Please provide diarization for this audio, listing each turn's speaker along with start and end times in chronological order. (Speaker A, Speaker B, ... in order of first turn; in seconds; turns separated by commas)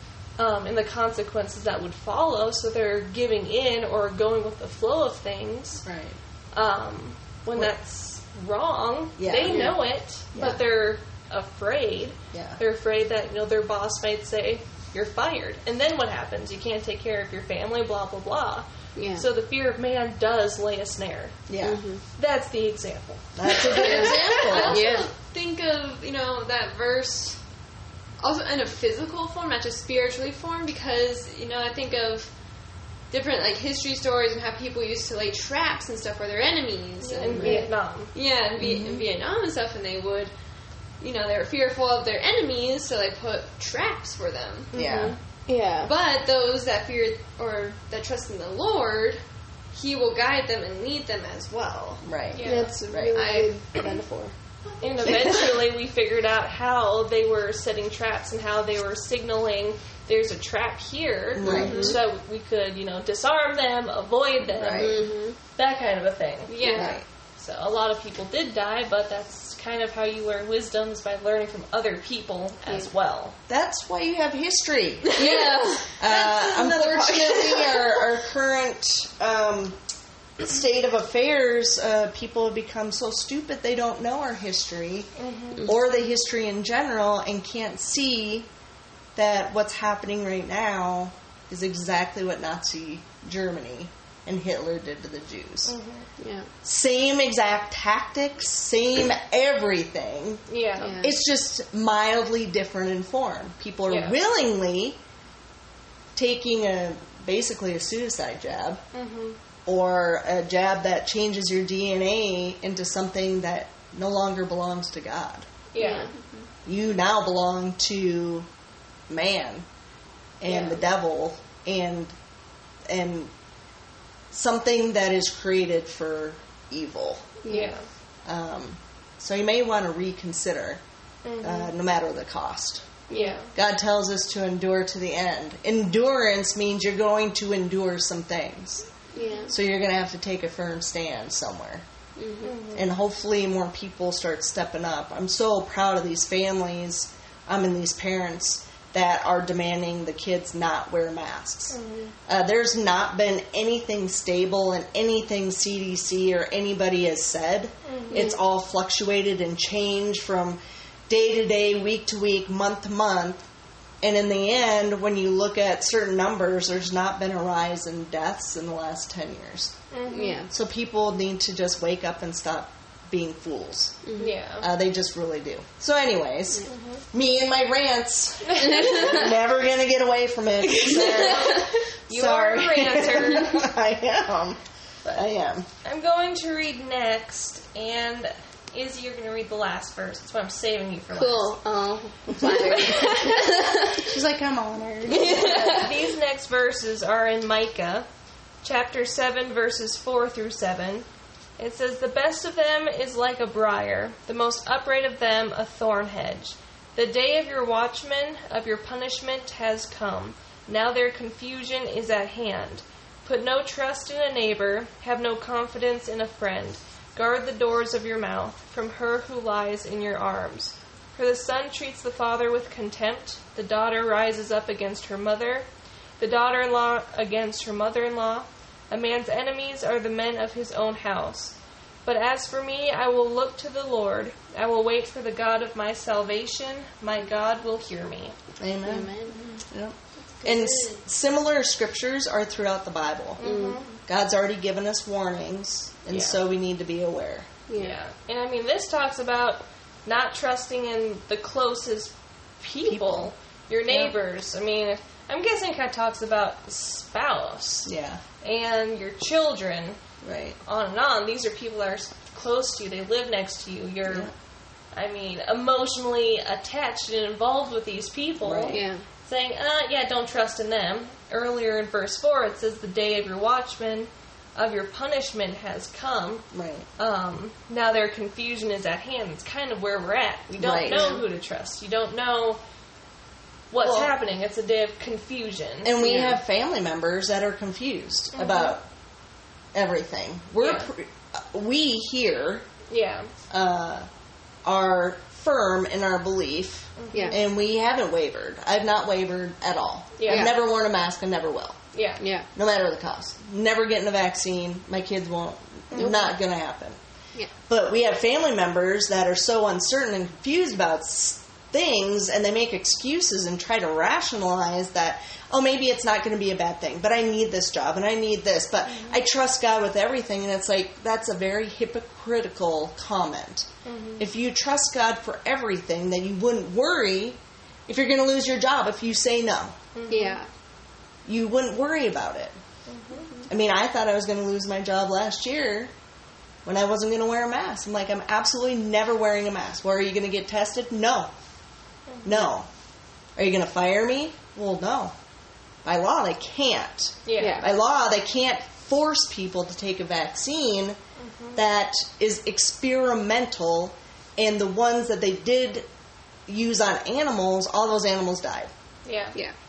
Speaker A: 0.4-5.8, Speaker B: 5.8-6.2, Speaker A: 6.5-21.4, Speaker B: 9.2-9.8, Speaker C: 9.4-9.8, Speaker B: 10.3-10.6, Speaker B: 12.3-12.6, Speaker C: 18.9-19.2, Speaker B: 21.5-21.8, Speaker C: 21.6-22.0, Speaker A: 22.2-24.7, Speaker B: 23.3-24.8, Speaker D: 23.8-27.4, Speaker C: 23.8-25.1, Speaker D: 28.2-32.3, Speaker D: 33.1-40.3, Speaker A: 37.0-38.1, Speaker C: 37.2-37.7, Speaker B: 38.6-39.0, Speaker D: 41.0-44.7, Speaker A: 44.7-45.1, Speaker B: 44.7-45.2, Speaker C: 44.8-45.9, Speaker D: 45.8-49.2, Speaker D: 49.7-52.6, Speaker B: 52.0-53.2, Speaker A: 52.3-52.7, Speaker C: 52.4-54.3, Speaker D: 53.1-54.0, Speaker D: 54.7-55.5, Speaker A: 54.8-66.6, Speaker B: 55.0-55.5, Speaker B: 61.3-62.0, Speaker C: 61.4-62.0, Speaker D: 61.5-61.9, Speaker B: 64.4-65.0, Speaker C: 64.7-65.4, Speaker D: 66.5-67.0, Speaker C: 66.6-66.9, Speaker B: 66.7-67.0, Speaker A: 67.3-73.3, Speaker B: 73.5-75.4, Speaker D: 75.1-77.9, Speaker C: 75.1-76.0, Speaker B: 76.0-79.8, Speaker B: 80.4-88.5, Speaker A: 85.2-85.7, Speaker B: 89.2-95.7, Speaker A: 95.7-96.1, Speaker C: 96.2-96.5, Speaker B: 96.6-100.4, Speaker A: 100.5-101.0, Speaker C: 100.8-101.1, Speaker B: 101.0-105.0, Speaker A: 103.9-104.2, Speaker B: 106.2-108.8, Speaker A: 108.9-109.4, Speaker B: 109.7-115.5, Speaker A: 115.7-116.1, Speaker C: 115.8-116.1, Speaker D: 115.9-116.4, Speaker B: 116.7-118.5, Speaker B: 119.1-119.6, Speaker B: 120.4-122.1, Speaker A: 120.5-120.8, Speaker B: 122.9-123.3, Speaker B: 124.3-127.4, Speaker C: 127.4-127.7, Speaker A: 127.5-127.8, Speaker B: 128.2-130.8, Speaker A: 131.2-131.7, Speaker B: 131.4-133.0, Speaker A: 133.1-133.5, Speaker C: 133.1-133.4, Speaker B: 133.5-138.9, Speaker C: 139.1-139.5, Speaker D: 139.2-139.5, Speaker B: 139.5-141.8, Speaker C: 142.2-142.6, Speaker A: 142.4-142.9, Speaker B: 142.7-163.4, Speaker A: 151.7-152.1, Speaker A: 157.8-158.3, Speaker C: 158.1-158.4, Speaker B: 164.0-169.7, Speaker A: 169.9-170.4, Speaker C: 170.1-170.5, Speaker B: 170.5-174.0, Speaker C: 174.0-174.3, Speaker A: 174.2-174.7, Speaker B: 174.6-185.7, Speaker A: 176.6-177.0, Speaker A: 178.4-179.0, Speaker C: 178.7-179.1, Speaker A: 180.9-183.6, Speaker C: 181.2-181.6, Speaker A: 185.8-191.5, Speaker C: 191.1-194.1, Speaker A: 192.4-193.4, Speaker B: 193.9-195.8, Speaker C: 195.1-195.9, Speaker A: 195.3-198.1, Speaker A: 198.6-201.1, Speaker A: 201.6-225.7, Speaker A: 226.2-238.3, Speaker B: 238.6-239.1, Speaker C: 238.8-239.4, Speaker D: 239.3-239.6, Speaker B: 239.7-243.4, Speaker D: 240.4-241.0, Speaker A: 243.4-243.9, Speaker C: 243.4-243.8, Speaker B: 244.1-247.5, Speaker A: 246.1-246.4, Speaker C: 247.7-248.0, Speaker A: 247.7-257.9, Speaker B: 252.8-253.3, Speaker B: 253.9-254.1, Speaker B: 257.9-258.2, Speaker A: 258.4-260.0, Speaker B: 260.2-260.6, Speaker A: 260.6-264.3, Speaker B: 264.1-264.3, Speaker A: 264.9-282.6, Speaker B: 268.4-268.8, Speaker C: 268.7-269.0, Speaker B: 276.5-276.9, Speaker B: 280.6-281.2, Speaker C: 280.8-281.2, Speaker A: 283.7-286.0, Speaker B: 283.8-284.1, Speaker B: 285.8-288.8, Speaker C: 286.0-286.4, Speaker A: 288.3-288.8, Speaker B: 289.7-292.6, Speaker A: 290.6-290.9, Speaker A: 292.9-293.3, Speaker B: 293.5-294.1, Speaker B: 294.6-301.8, Speaker A: 297.0-297.4, Speaker C: 297.1-297.4, Speaker A: 300.2-300.5, Speaker C: 300.2-300.6, Speaker A: 301.9-302.2, Speaker C: 302.2-302.5, Speaker B: 302.5-307.0, Speaker C: 305.9-306.4, Speaker B: 307.7-329.8, Speaker A: 323.8-324.2, Speaker A: 329.9-330.4, Speaker C: 330.1-330.5, Speaker B: 331.2-332.6, Speaker A: 332.9-333.3, Speaker B: 333.5-335.9, Speaker B: 336.6-341.3, Speaker A: 342.1-342.5, Speaker B: 342.2-342.7, Speaker B: 343.4-345.1, Speaker B: 345.8-351.0, Speaker A: 347.2-347.7, Speaker C: 347.4-347.7, Speaker A: 351.2-351.6, Speaker B: 351.5-355.9, Speaker B: 356.5-358.7, Speaker A: 359.0-359.4